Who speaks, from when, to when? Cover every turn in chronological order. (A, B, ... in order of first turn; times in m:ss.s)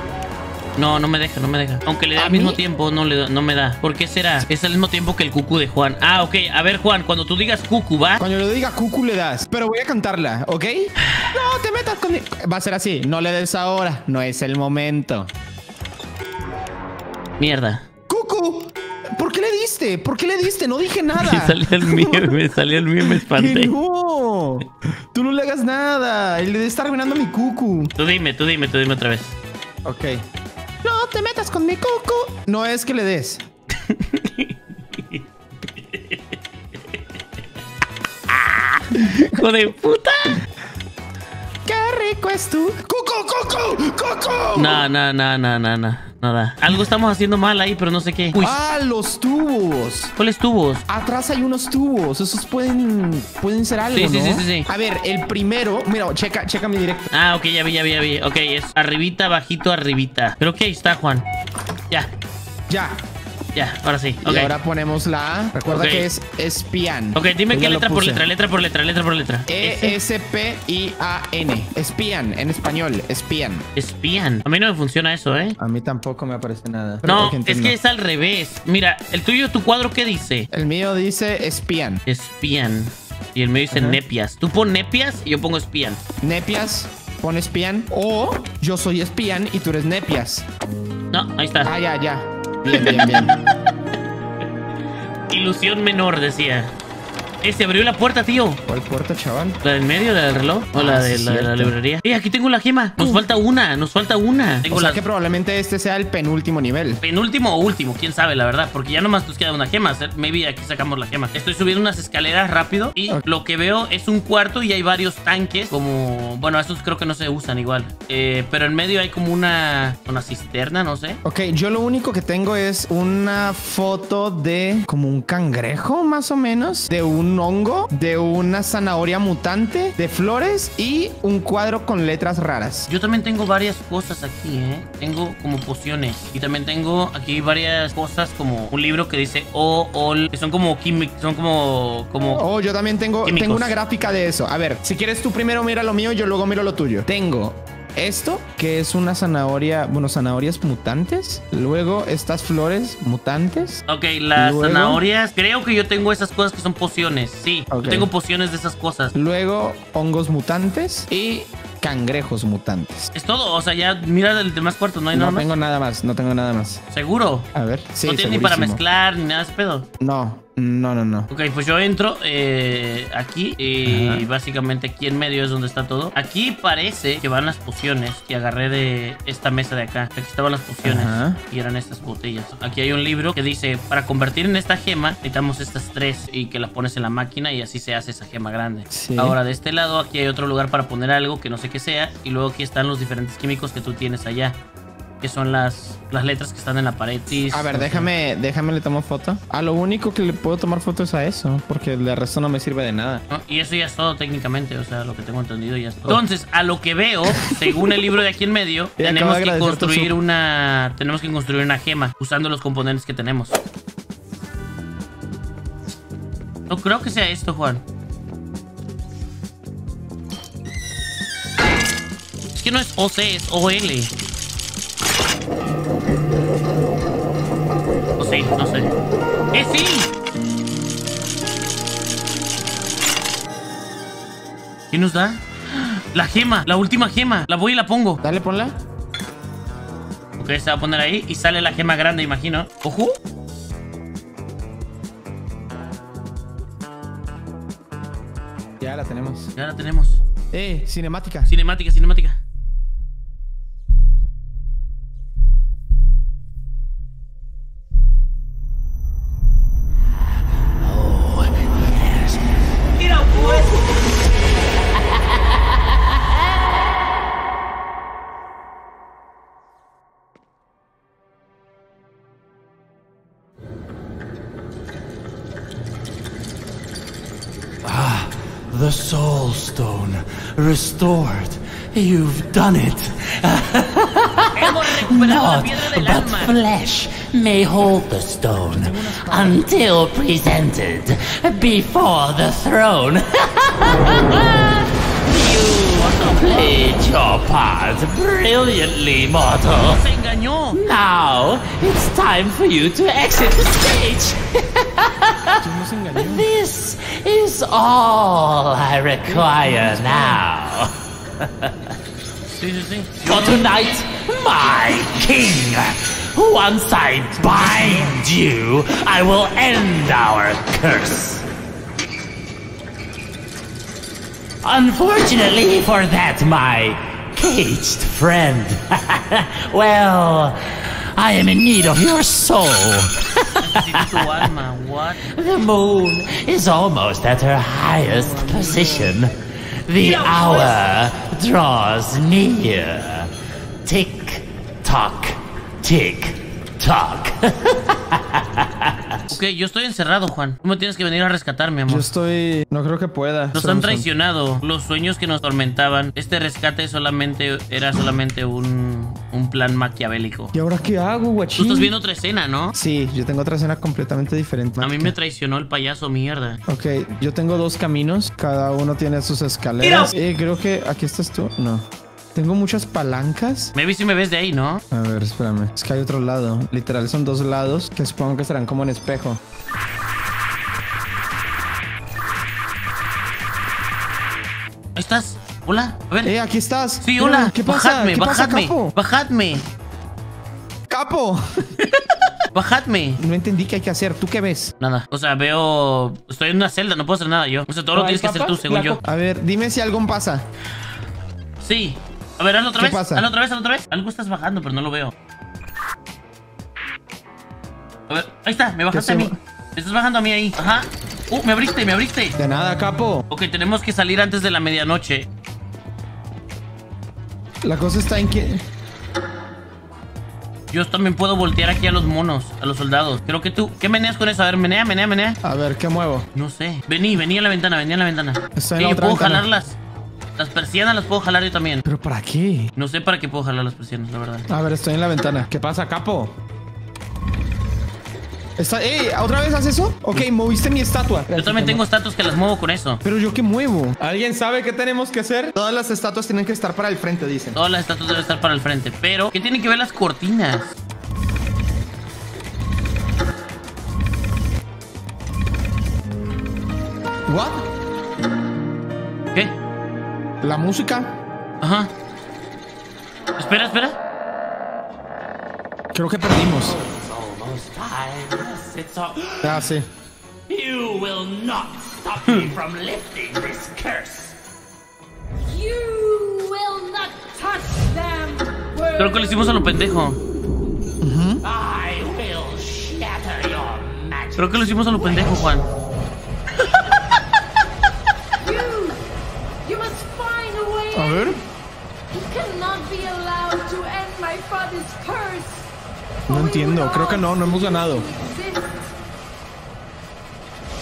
0:00.8-0:08.2 A
0:02.2-0:02.6 B
0:08.2-0:15.3 B
0:17.4-0:17.8 A
0:18.1-0:22.4 B
0:21.2-0:23.7 A
0:23.0-0:27.9 B
0:28.0-0:29.4 A
0:29.8-0:30.2 B
0:30.8-0:33.4 B
0:33.9-0:35.2 A
0:35.9-0:36.2 A
0:38.3-0:40.4 A
0:38.9-0:39.4 B
0:41.7-0:44.8 B
0:44.6-0:48.6 A
0:48.4-0:50.1 B
0:50.2-0:50.8 A
0:50.9-0:57.1 B
0:53.9-0:54.7 A
0:57.1-1:01.3 A
1:02.7-1:03.0 B
1:03.6-1:04.5 A
1:04.2-1:08.2 B
1:05.7-1:06.1 A
1:07.2-1:10.0 A
1:09.5-1:13.7 B
1:13.8-1:15.6 A
1:15.6-1:17.8 B
1:17.0-1:20.5 A
1:20.5-1:22.0 B
1:22.1-1:26.0 A
1:23.7-1:24.0 B
1:26.2-1:30.4 B
1:31.1-1:31.7 A
1:31.6-1:33.3 B
1:32.7-1:33.3 A
1:35.3-1:36.7 A
1:37.4-1:38.6 A
1:38.7-1:39.6 B
1:39.6-1:45.0 A
1:40.7-1:41.7 B
1:44.7-1:47.0 B
1:47.0-2:01.2 A
2:01.2-2:12.9 B
2:12.9-2:22.4 A
2:22.3-2:33.8 B
2:23.2-2:23.7 A
2:33.9-2:39.1 A
2:34.4-2:35.0 B
2:37.7-2:38.1 B
2:39.1-2:43.1 B
2:43.1-2:45.4 A
2:45.1-2:46.8 B
2:46.9-2:47.5 A
2:47.6-2:48.8 B
2:48.1-2:49.9 A
2:50.0-2:51.3 B
2:51.3-3:14.6 A
2:53.9-2:54.3 B
3:00.8-3:01.4 B
3:08.9-3:09.4 B
3:15.2-3:18.1 A
3:17.5-3:23.2 B
3:23.3-3:33.6 A
3:27.3-3:27.8 B
3:29.0-3:30.1 B
3:36.7-3:37.8 A
3:42.5-3:44.1 A
3:48.2-3:48.9 A
3:49.5-3:50.1 A
3:54.9-3:58.2 A
3:58.2-3:58.8 B
4:00.4-4:03.2 A
4:08.8-4:09.5 B
4:09.6-4:10.2 A
4:10.5-4:11.5 B
4:11.5-4:12.4 A
4:20.5-4:23.8 C
4:25.0-4:25.8 C
4:37.8-5:00.0 C
4:44.5-4:46.6 A
4:48.7-4:49.6 B
4:55.9-4:56.8 A
4:59.8-5:00.8 A
5:00.7-5:05.6 C
5:05.6-5:06.5 B
5:06.1-5:12.0 C
5:09.2-5:10.4 B
5:12.5-5:13.6 A
5:13.2-5:21.5 C
5:17.4-5:18.2 B
5:24.6-5:34.5 C
5:33.6-5:35.3 A
5:35.2-5:43.3 C
5:38.2-5:39.1 B
5:40.1-5:40.7 B
5:43.8-5:49.2 C
5:49.3-5:52.1 A
5:51.9-5:54.1 B
5:53.5-6:00.5 A
6:00.5-6:01.9 B
6:01.6-6:02.7 A
6:02.7-6:05.1 B
6:04.8-6:06.6 A
6:06.7-6:13.7 B
6:09.8-6:10.1 A
6:13.8-6:14.8 A
6:14.9-6:19.4 B
6:25.0-6:26.3 A
6:26.2-6:28.9 B
6:27.0-6:29.7 A
6:30.9-6:31.7 B
6:32.5-6:33.2 A
6:33.2-6:34.7 B
6:34.8-6:39.0 A
6:37.9-6:40.4 B
6:41.6-6:45.1 A
6:42.8-6:43.3 B
6:48.1-6:52.4 A
6:48.9-6:49.4 B
6:52.4-6:53.2 B
6:53.3-6:55.3 A
6:57.6-6:58.6 B
7:00.7-7:05.4 A
7:05.4-7:06.3 B
7:06.4-7:09.8 A
7:08.6-7:09.4 B
7:10.4-7:11.8 A
7:11.8-7:12.7 B
7:12.8-7:14.5 A
7:14.5-7:16.3 B
7:18.6-7:21.8 B
7:21.4-7:23.0 A
7:23.0-7:27.6 B
7:27.6-7:30.8 A
7:37.3-7:37.7 B
7:40.4-7:41.2 B
7:41.6-7:41.9 A
7:43.4-7:44.0 A
7:45.9-7:46.8 B
7:46.5-7:49.7 C
7:49.4-7:49.9 B
7:50.5-7:54.4 C
7:55.4-7:59.5 D
7:59.0-8:00.2 A
8:01.0-8:01.4 B
8:01.4-8:05.2 C
8:04.4-8:05.7 A
8:08.4-8:09.0 D
8:09.6-8:11.4 D
8:10.9-8:11.4 B
8:12.1-8:15.7 D
8:16.3-8:18.9 D
8:16.3-8:18.1 B